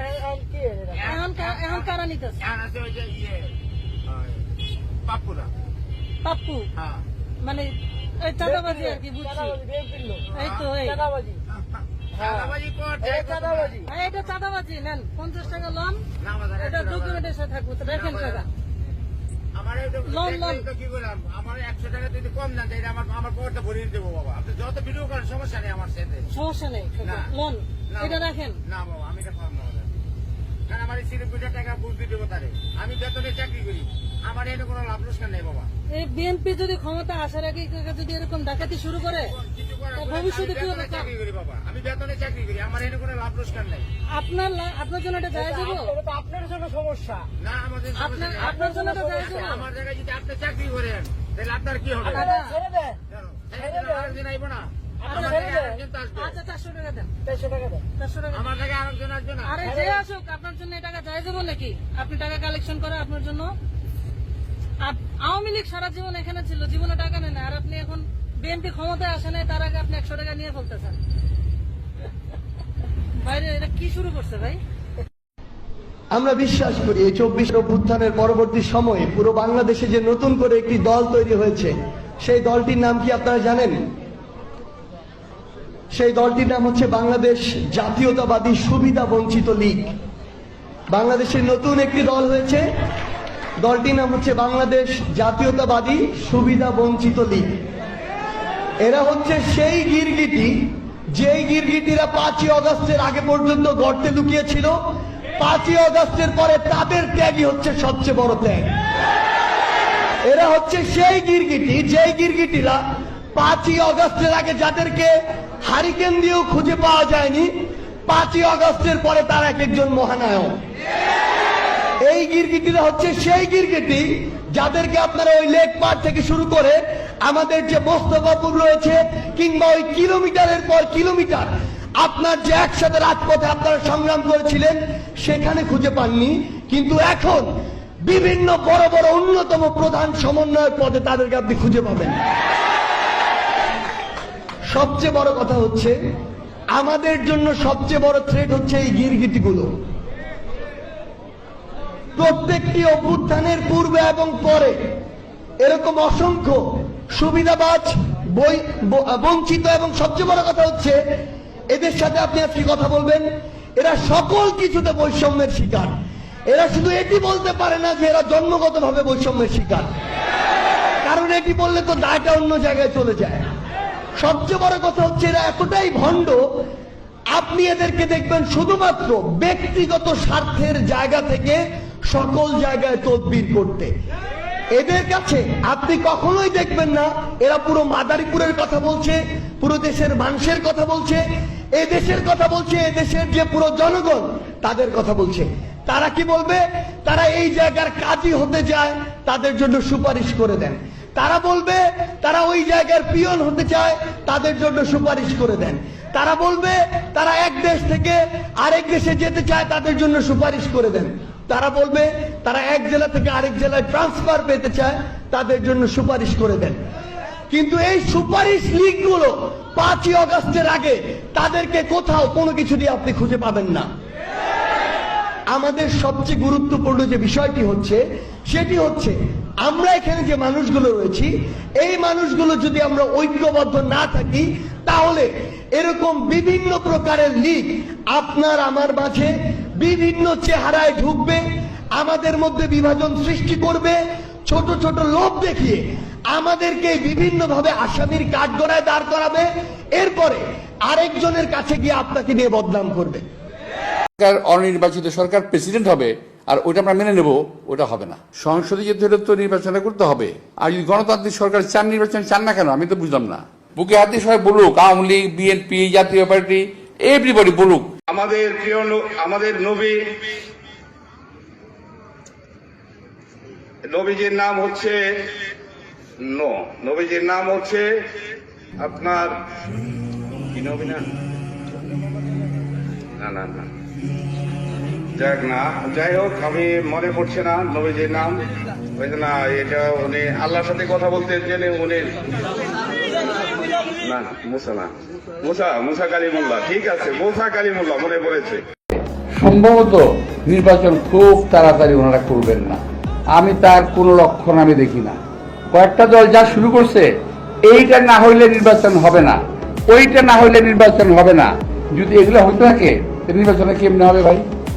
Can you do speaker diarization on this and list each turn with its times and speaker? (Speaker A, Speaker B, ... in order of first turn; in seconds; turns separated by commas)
Speaker A: 0.9-1.9, Speaker B: 1.0-2.4, Speaker A: 2.4-3.5, Speaker A: 4.1-4.4, Speaker A: 5.0-5.5, Speaker B: 6.2-6.6, Speaker A: 6.8-7.0, Speaker B: 7.4-7.7, Speaker B: 8.2-9.6, Speaker A: 10.3-10.7, Speaker B: 10.3-11.0, Speaker A: 12.2-13.8, Speaker B: 13.8-16.0, Speaker A: 16.2-17.3, Speaker B: 16.6-18.4, Speaker A: 17.9-18.4, Speaker A: 19.6-26.3, Speaker B: 20.1-20.6, Speaker B: 26.3-28.5, Speaker A: 27.0-27.3, Speaker A: 27.9-29.8, Speaker A: 30.7-35.7, Speaker B: 35.9-39.3, Speaker A: 39.4-43.8, Speaker B: 40.0-41.1, Speaker B: 44.1-45.9, Speaker A: 47.4-48.5, Speaker B: 48.0-49.5, Speaker A: 49.1-52.3, Speaker B: 52.0-52.5, Speaker A: 53.1-56.3, Speaker B: 55.1-55.5, Speaker B: 56.2-57.1, Speaker B: 58.0-58.4, Speaker A: 58.3-59.5, Speaker B: 59.4-63.5, Speaker B: 64.8-71.0, Speaker B: 73.2-74.6, Speaker C: 76.1-83.8, Speaker C: 85.9-89.9, Speaker C: 90.9-92.7, Speaker C: 93.6-97.5, Speaker C: 98.8-104.8, Speaker C: 105.4-108.7, Speaker C: 110.3-112.8, Speaker C: 113.3-115.1, Speaker C: 115.6-117.5, Speaker C: 118.1-120.5, Speaker C: 122.0-137.5, Speaker C: 138.1-142.2, Speaker C: 144.7-145.9, Speaker C: 146.7-149.7, Speaker C: 152.2-154.8, Speaker C: 155.6-156.6, Speaker C: 157.1-161.0, Speaker C: 161.7-165.9, Speaker C: 166.5-169.9, Speaker C: 171.0-173.4, Speaker C: 174.2-176.4, Speaker C: 177.3-183.9, Speaker C: 184.7-191.2, Speaker C: 191.7-216.8, Speaker C: 217.5-223.9, Speaker C: 225.5-241.4, Speaker C: 241.9-253.2, Speaker D: 254.2-267.9, Speaker E: 268.1-270.2, Speaker E: 273.8-275.2, Speaker E: 276.2-278.0, Speaker E: 278.8-279.4, Speaker E: 280.5-281.1, Speaker E: 283.2-283.7, Speaker E: 285.1-288.4, Speaker E: 289.0-292.3, Speaker E: 294.0-294.9, Speaker E: 295.4-298.6, Speaker D: 299.4-302.8, Speaker D: 303.3-305.2, Speaker D: 305.7-307.1, Speaker D: 307.7-309.4, Speaker D: 309.9-314.4